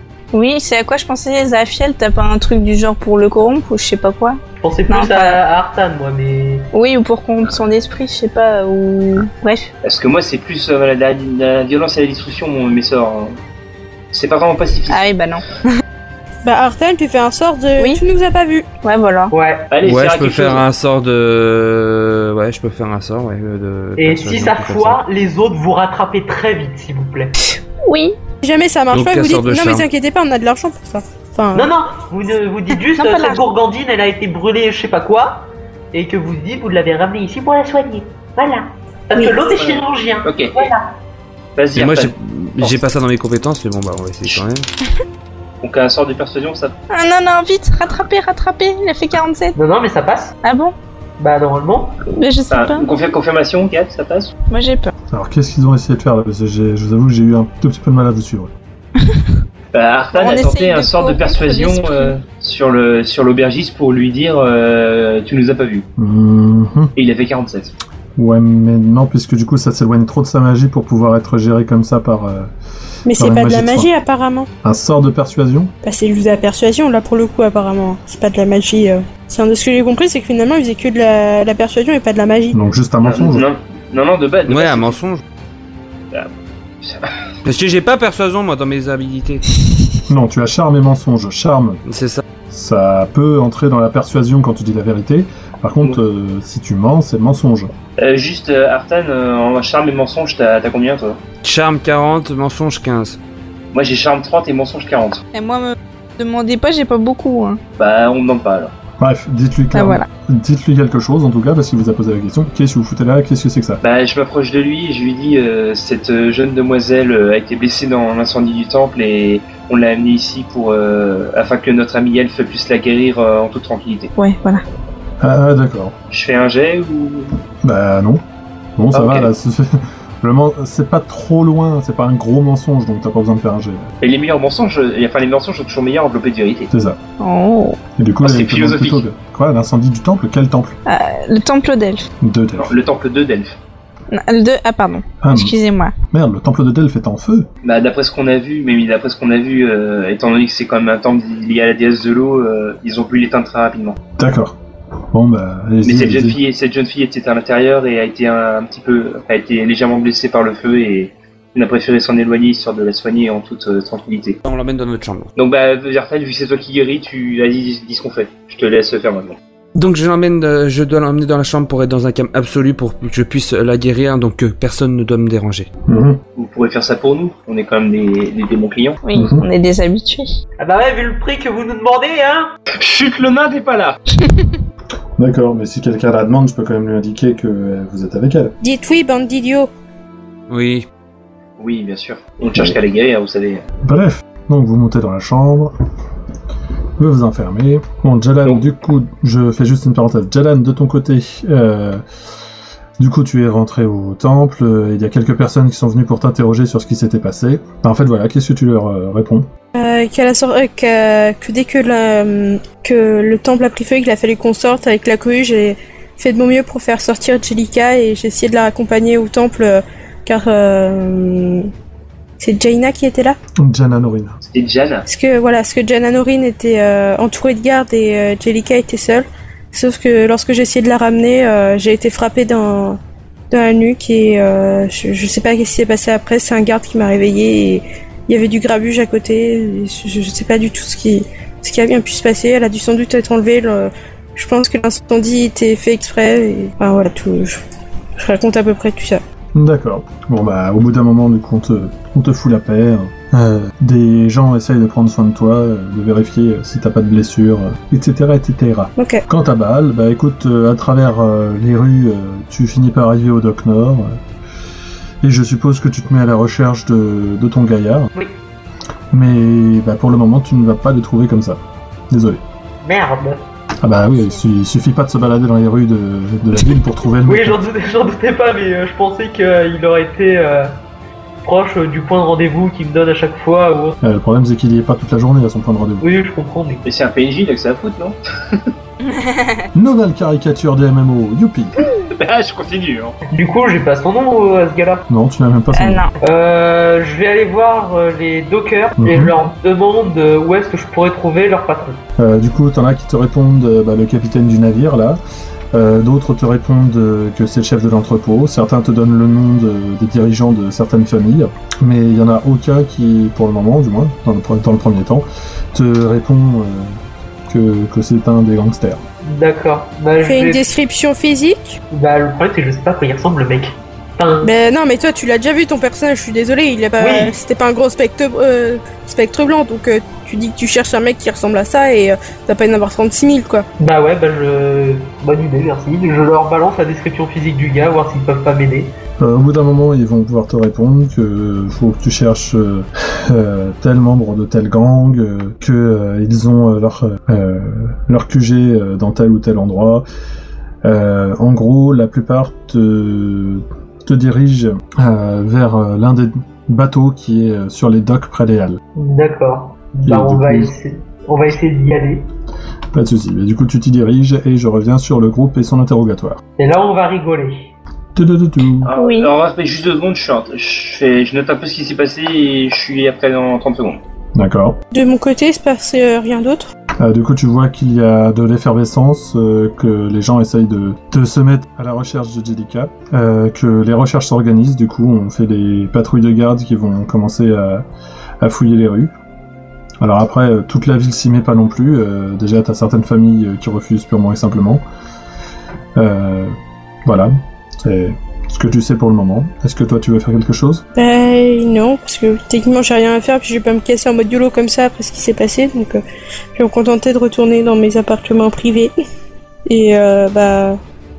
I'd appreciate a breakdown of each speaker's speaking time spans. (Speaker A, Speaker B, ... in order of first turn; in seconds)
Speaker A: 0.3-5.4, 6.7-9.7, 14.9-15.6, 18.8-19.3, 27.4-28.2, 32.9-33.4, 46.9-49.6, 50.4-50.8, 52.1-52.9, 54.5-54.9, 60.1-62.1, 105.3-107.6, 109.7-110.1, 124.2-124.6, 137.2-137.8, 140.9-142.1, 144.1-145.9, 179.0-180.3, 289.0-289.7, 295.7-296.1, 368.9-369.3
Speaker B: 4.6-6.7, 19.3-19.7, 24.0-27.3, 31.5-40.9, 49.6-50.4, 51.2-52.0, 180.6-182.5, 272.8-273.4, 277.3-280.8, 281.4-284.0, 286.0-286.8, 293.3-295.0, 296.2-302.0, 319.2-320.6, 321.9-324.5, 327.0-327.4, 333.8-339.0, 359.0-362.3, 366.6-367.7
Speaker C: 9.8-13.4, 14.1-15.1, 19.7-20.6, 39.6-40.7, 41.6-42.8, 45.6-46.8, 52.5-54.3, 59.7-65.9, 67.0-67.7, 83.0-85.0, 86.8-87.1, 98.0-101.2, 103.7-105.2, 107.8-108.7, 113.8-124.1, 126.1-127.4, 128.9-129.3, 134.0-136.7, 138.2-139.0, 142.6-143.6, 147.6-154.0, 155.8-164.4, 165.4-169.4, 176.4-179.0, 182.8-184.0, 191.6-193.6, 224.4-225.1, 286.9-288.7, 292.1-293.2, 368.9-374.0
Speaker D: 16.4-18.7, 28.4-31.7, 73.1-74.5, 75.8-82.6, 188.6-189.7, 209.8-221.7, 222.4-223.4, 225.1-233.0, 233.5-247.6, 248.2-249.2, 259.0-259.2, 320.2-321.8, 324.4-333.7, 374.9-376.7, 401.0-406.0, 406.6-408.9, 409.7-410.8
Speaker E: 19.8-25.0, 28.9-29.9, 41.7-44.7, 84.5-85.2, 87.4-89.4, 91.9-92.2, 101.4-103.2, 164.4-165.3, 169.8-175.7, 190.5-190.9
Speaker F: 55.1-58.5, 66.0-66.9, 68.2-72.5, 73.2-73.9, 74.6-75.7, 82.5-83.5, 90.1-91.8, 92.5-97.7, 109.0-113.8, 125.2-126.0, 127.6-128.2, 128.8-133.9, 136.7-137.0, 138.0-140.8, 142.2-142.8, 145.2-145.5, 146.1-147.5, 154.2-154.6, 155.1-156.4, 175.9-176.2, 179.1-179.4, 185.2-188.6, 193.8-195.7, 197.0-202.0, 203.0-209.5, 223.6-224.4, 249.6-264.2, 265.2-268.1, 269.1-272.4, 273.8-277.6, 284.0-286.1, 289.8-291.8, 295.1-296.0, 299.0-299.4, 302.2-305.2, 305.7-316.9, 317.5-319.0, 339.2-350.1, 350.8-358.8, 360.0-360.7, 362.9-366.4, 368.1-368.9, 374.4-374.8, 377.0-387.8, 388.4-389.1, 390.0-394.8, 396.0-396.6, 397.1-400.8